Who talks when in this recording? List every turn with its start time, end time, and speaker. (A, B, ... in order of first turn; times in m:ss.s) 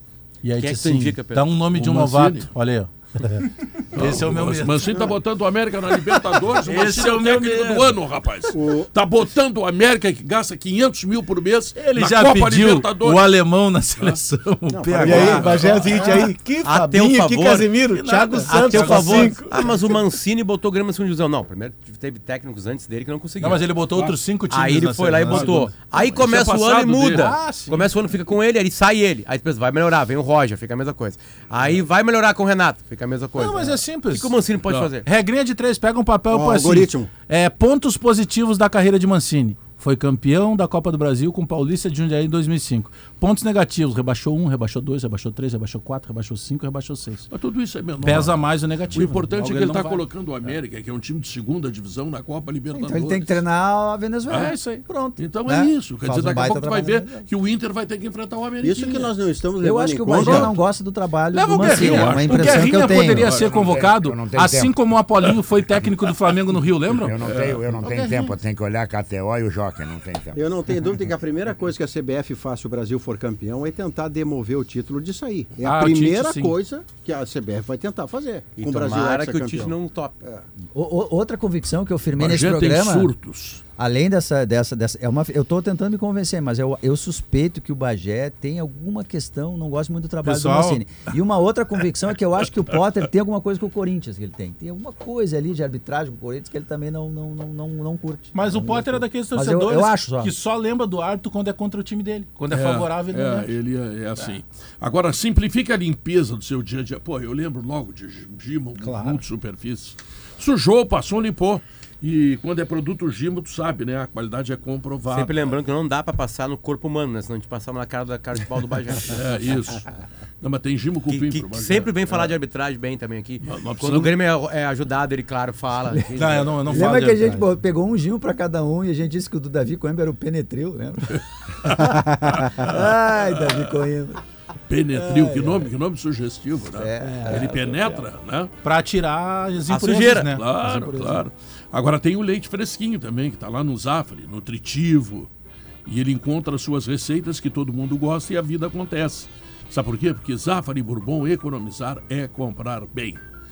0:00.4-0:05.2 A
0:00.5-0:01.6 B
0:01.7-0:02.5 C
0:03.9-0:13.3 C
0:06.6-0:08.0 A
0:08.5-0:08.9 D
0:11.8-0:16.3 A
0:14.7-0:15.6 D
0:15.0-0:20.0 E
0:15.3-0:15.8 C
0:16.6-0:17.7 B
0:17.9-0:19.7 A
0:18.5-0:23.7 B
0:23.4-0:25.7 A
0:24.5-0:35.1 B
0:25.3-0:27.3 C
0:27.1-0:27.8 A
0:33.4-0:34.4 A
0:34.7-0:34.9 C
0:35.0-0:47.3 A
0:36.3-0:37.1 D
0:47.3-0:48.4 C
0:48.0-0:50.0 A
0:48.9-0:53.4 C
0:52.7-0:57.2 F
0:54.3-0:54.6 C
0:54.3-0:54.8 A
0:55.2-0:59.1 C
0:58.6-1:00.6 D
0:59.6-1:03.3 F
1:01.3-1:07.2 A
1:01.5-1:03.8 C
1:02.9-1:04.8 G
1:06.9-1:10.4 G
1:07.2-1:07.6 C
1:07.8-1:08.4 A
1:10.4-1:20.4 D
1:15.6-1:16.6 A
1:18.6-1:20.2 B
1:20.7-1:23.1 F
1:22.2-1:23.6 C
1:23.8-1:40.3 F
1:30.2-1:30.8 A
1:38.3-1:43.5 A
1:42.5-1:55.6 C
1:48.8-1:49.2 A
1:55.1-1:59.2 B
1:59.0-1:59.9 C
2:00.4-2:02.3 C
2:01.1-2:07.0 B
2:03.4-2:04.2 C
2:06.2-2:07.5 A
2:06.7-2:14.2 F
2:11.7-2:13.8 C
2:14.7-2:18.5 C
2:14.9-2:15.7 F
2:16.8-2:17.8 F
2:17.0-2:17.4 A
2:18.6-2:21.2 A
2:19.7-2:20.3 B
2:20.2-2:25.3 C
2:25.9-2:33.2 C